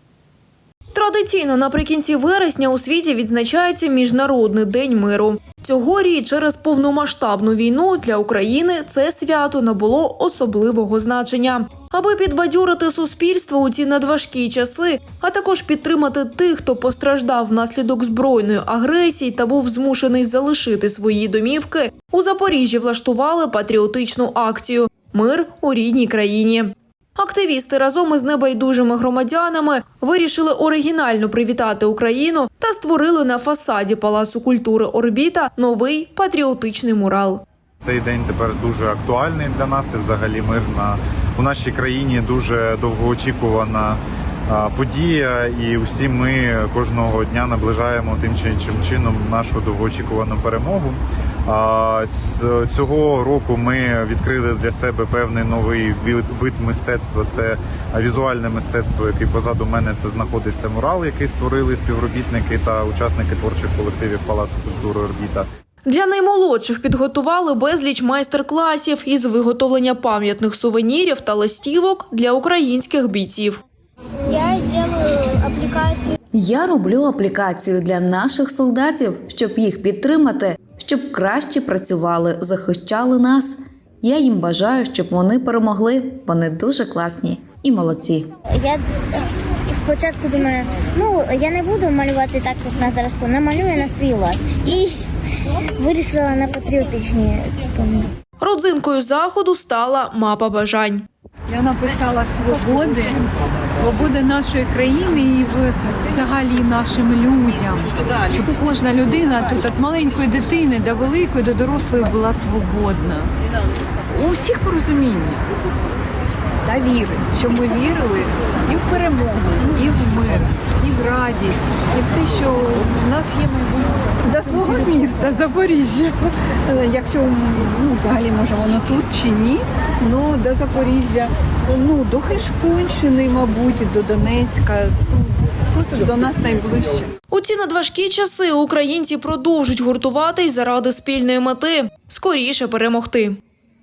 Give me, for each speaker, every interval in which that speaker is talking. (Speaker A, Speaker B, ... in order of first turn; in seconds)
Speaker A: 0.9-37.4, 65.8-73.6, 98.4-101.1, 137.3-143.4
Speaker B: 37.8-65.5
Speaker C: 74.3-76.2, 88.5-95.0, 95.8-98.1
Speaker D: 76.3-88.3
Speaker E: 101.5-113.3, 114.2-115.4, 116.7-137.1